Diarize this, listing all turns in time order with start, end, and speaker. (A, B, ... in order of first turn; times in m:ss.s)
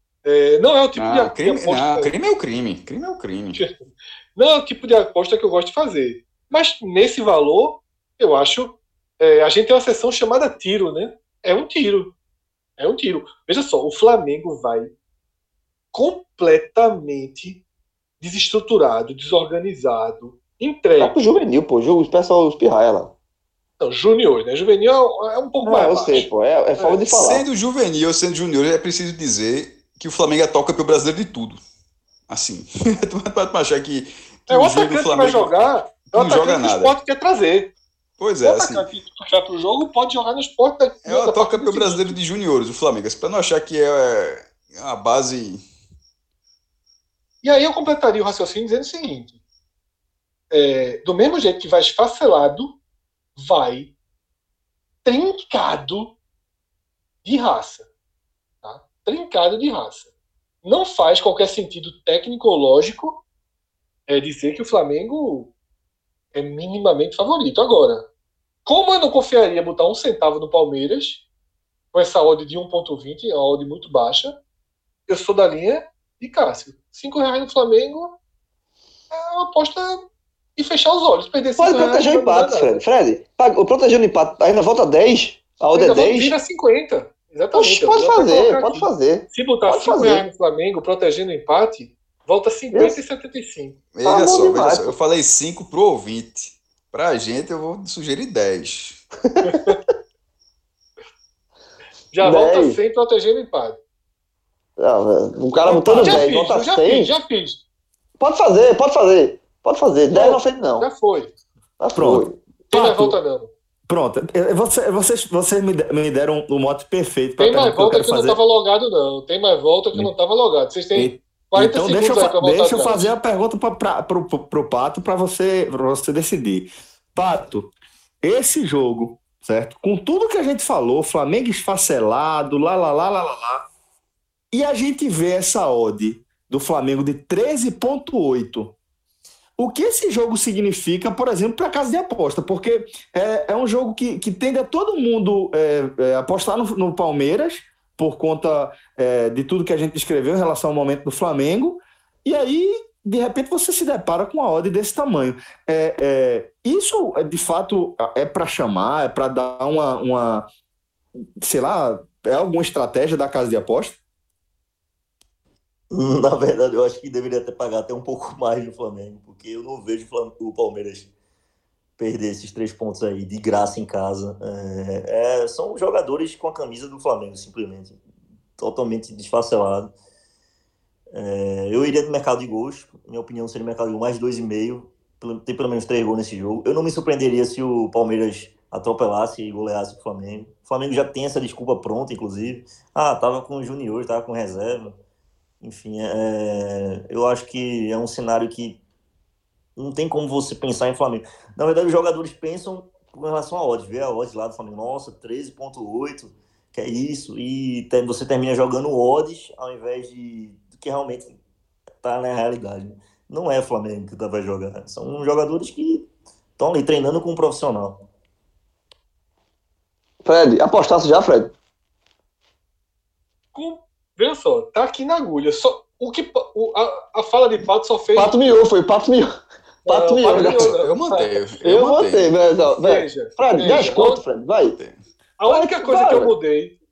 0:00.2-0:02.1 A
0:01.0-0:03.6 B
0:04.4-0:12.1 A
0:12.8-0:14.9 A
0:15.9-0:17.6 A
0:18.2-0:21.1 A
0:21.0-0:23.1 C
0:23.8-0:26.3 A
0:25.6-0:27.4 C
0:27.0-0:31.6 B
0:32.3-0:36.9 B
0:34.5-0:37.7 A
0:38.2-0:38.8 B
0:38.4-0:42.2 A
0:41.0-0:45.6 B
0:47.4-0:49.4 A
0:50.5-0:52.7 A
0:53.4-0:53.9 A
0:55.0-0:56.1 A
0:57.2-0:57.8 A
0:58.6-1:00.1 A
1:00.6-1:03.2 A
1:04.1-1:05.5 A
1:06.3-1:08.0 A
1:08.6-1:11.2 A
1:11.9-1:14.3 A
1:15.1-1:18.1 A
1:19.1-1:20.0 A
1:20.6-1:22.7 A
1:21.6-1:26.4 C
1:25.7-1:33.7 A
1:27.5-1:30.2 C
1:32.7-1:33.0 C
1:33.9-1:39.0 B
1:34.0-1:35.0 C
1:39.3-1:39.6 C
1:39.4-1:39.7 A
1:42.1-1:43.8 A
1:42.2-1:42.8 C
1:44.8-1:47.1 C
1:45.6-1:47.6 A
1:48.2-1:50.9 C
1:50.1-1:51.3 A
1:51.8-1:52.4 C
1:52.0-1:53.2 D
1:52.7-1:53.5 A
1:53.9-1:58.4 D
1:57.4-2:03.1 A
2:00.9-2:07.7 D
2:08.2-2:13.6 D
2:14.5-2:18.7 D
2:19.6-2:40.4 D
2:41.4-2:44.0 D
2:45.9-2:51.1 E
2:52.0-2:58.0 E
2:58.6-2:59.9 E
3:01.1-3:14.9 E
3:15.6-3:18.8 E
3:19.8-3:31.3 E
3:32.0-3:36.0 E
3:36.6-3:37.9 E
3:40.2-3:41.5 C
3:43.5-3:48.3 A
3:48.1-3:49.3 C
3:49.8-3:50.7 C
3:49.8-3:51.3 A
3:50.3-3:52.3 B
3:51.6-3:54.8 C
3:52.8-3:54.2 A
3:55.4-3:56.7 A
3:55.5-3:56.3 C